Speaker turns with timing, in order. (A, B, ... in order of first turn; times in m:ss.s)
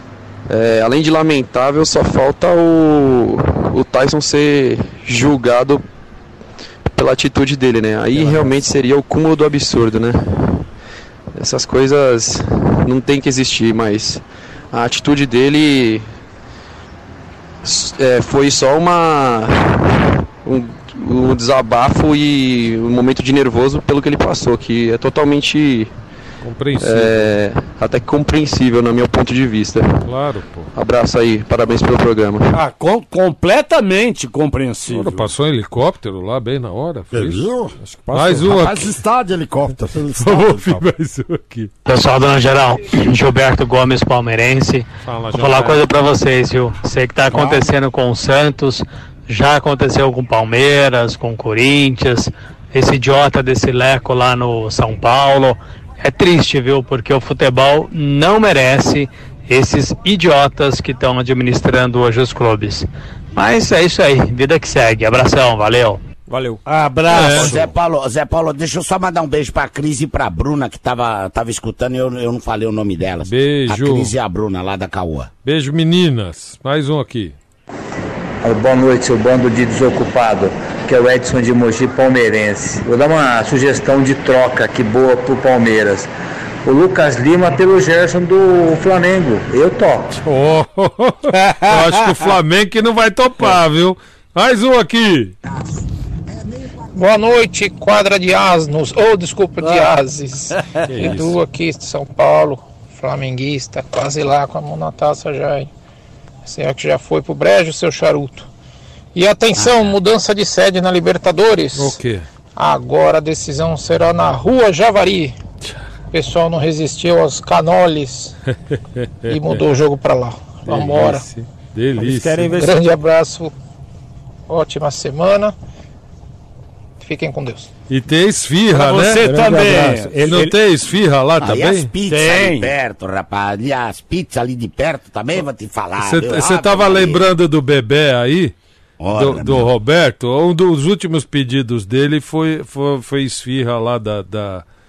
0:00.5-0:05.8 A
0:06.9-0:10.6 A
0:11.4-0:16.1 A
0:17.6-0:25.9 A
0:26.4-0:27.4 B
0:26.8-0:30.1 A
0:30.0-0:30.7 B
0:30.7-0:32.6 A
0:32.5-0:35.3 C
0:34.9-0:38.9 B
0:37.1-0:37.7 D
0:38.1-0:38.5 E
0:38.3-0:40.8 D
0:40.2-0:41.7 B
0:41.8-1:06.0 F
0:45.0-0:45.8 B
0:47.3-0:47.6 D
1:06.3-1:06.6 E
1:06.6-1:07.7 C
1:07.1-1:07.6 B
1:07.3-1:15.3 G
1:13.2-1:14.1 B
1:15.4-1:17.4 B
1:18.4-1:26.1 H
1:26.6-1:30.2 H
1:30.2-1:35.3 B
1:31.3-1:32.3 C
1:36.9-1:45.7 I
1:39.6-1:39.9 C
1:40.5-1:41.1 C
1:40.9-1:41.4 B
1:46.4-1:48.5 I
1:49.1-1:52.0 I
1:49.6-1:49.9 G
1:51.7-1:52.2 B
1:52.6-1:55.4 I
1:56.1-1:58.4 I
1:59.0-1:59.6 B
1:59.3-2:01.2 I
2:00.6-2:02.6 B
2:02.0-2:02.8 E
2:02.6-2:03.5 I
2:04.5-2:05.5 I
2:07.0-2:07.7 I
2:07.9-2:09.3 B
2:08.7-2:10.4 C
2:09.2-2:10.5 E
2:10.2-2:11.9 B
2:11.4-2:17.2 G
2:12.0-2:12.7 C
2:16.0-2:18.5 B
2:19.0-2:19.7 G
2:19.1-2:24.6 B